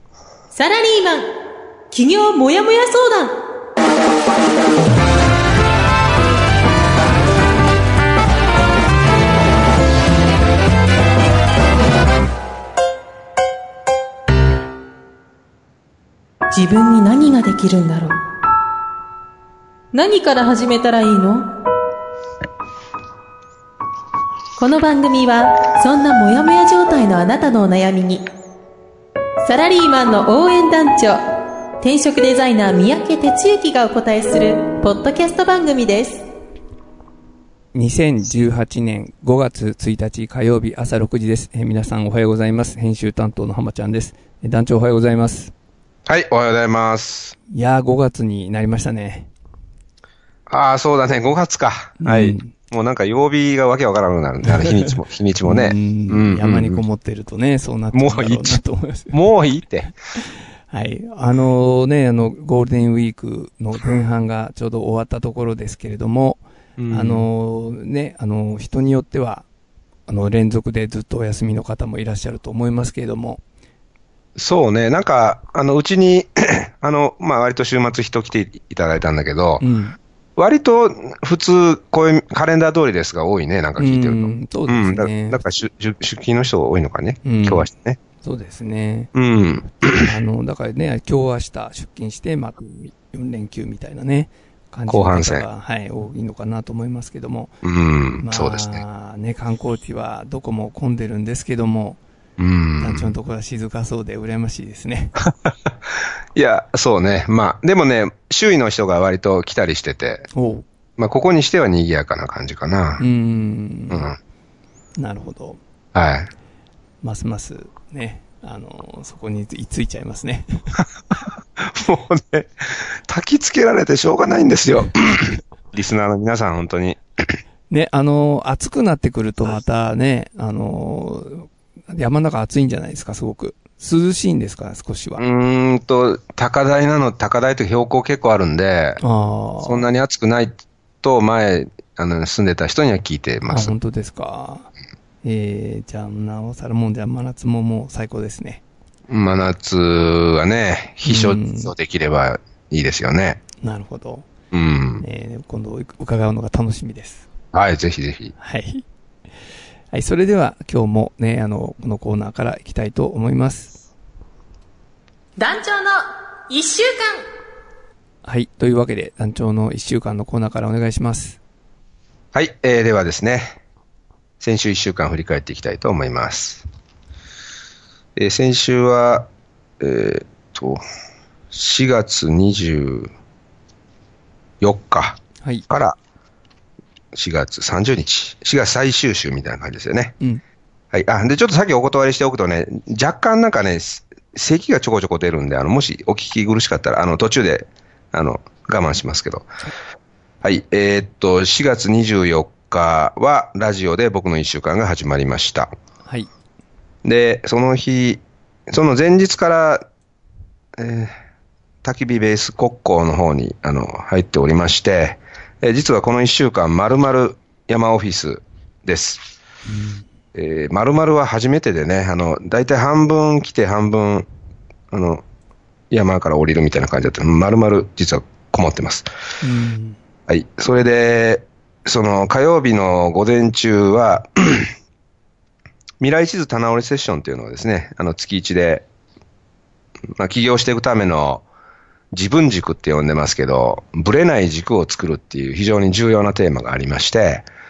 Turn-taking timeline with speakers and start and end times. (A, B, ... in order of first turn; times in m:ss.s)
0:00.5-0:01.3 A
0:01.9-0:03.4 A
0:16.5-0:18.2 A
0:19.9-0:21.5 A
0:24.6-0:28.2 A
0:29.4-0:31.2 A
0:31.8-0:36.2 A
0:37.7-0:45.5 B
0:46.1-0:47.4 C
0:47.5-0:49.3 B
0:50.5-0:56.8 C
0:52.0-0:52.5 B
0:54.5-0:54.9 B
0:55.4-0:59.2 B
0:57.9-0:59.9 C
1:00.2-1:09.4 B
1:06.8-1:07.2 C
1:10.1-1:13.4 B
1:14.4-1:19.6 C
1:19.6-1:20.0 B
1:20.4-1:28.0 C
1:23.8-1:25.4 B
1:27.2-1:27.7 B
1:28.2-1:29.1 B
1:29.1-1:30.1 C
1:30.0-1:37.5 B
1:34.9-1:35.4 C
1:37.6-1:38.8 C
1:38.2-1:42.0 B
1:42.4-1:43.1 C
1:42.8-1:45.2 B
1:45.2-1:50.3 C
1:50.3-1:50.6 B
1:51.0-1:53.0 C
1:53.0-1:54.1 B
1:53.9-1:54.2 C
1:55.0-1:55.6 B
1:55.9-1:56.3 C
1:57.0-2:00.8 B
2:01.6-2:07.4 C
2:07.7-2:15.2 B
2:15.2-2:19.0 C
2:19.0-2:19.9 B
2:19.6-2:23.7 C
2:23.5-2:24.7 B
2:25.2-2:28.6 B
2:29.1-2:33.4 C
2:31.0-2:31.7 B
2:33.6-2:34.3 B
2:34.5-2:35.0 C
2:35.0-2:37.2 B
2:37.5-2:38.3 C
2:38.4-2:38.8 B
2:39.9-2:43.7 B
2:45.4-2:47.2 A
2:48.2-2:51.4 B
2:52.3-2:53.5 C
2:54.4-2:56.6 C
2:58.2-2:59.3 C
2:59.8-3:00.8 C
3:01.5-3:03.1 C
3:04.6-3:06.0 C
3:07.1-3:10.2 C
3:10.9-3:19.5 C
3:20.4-3:25.7 C
3:27.0-3:29.8 C
3:30.8-3:31.1 C
3:31.8-3:39.2 C
3:39.7-3:40.0 B
3:40.3-3:44.3 C
3:44.9-3:45.2 C
3:45.9-3:49.1 C
3:49.4-3:50.0 B
3:50.3-3:54.7 C
3:56.0-3:58.8 C
4:00.1-4:01.4 C
4:02.1-4:07.5 C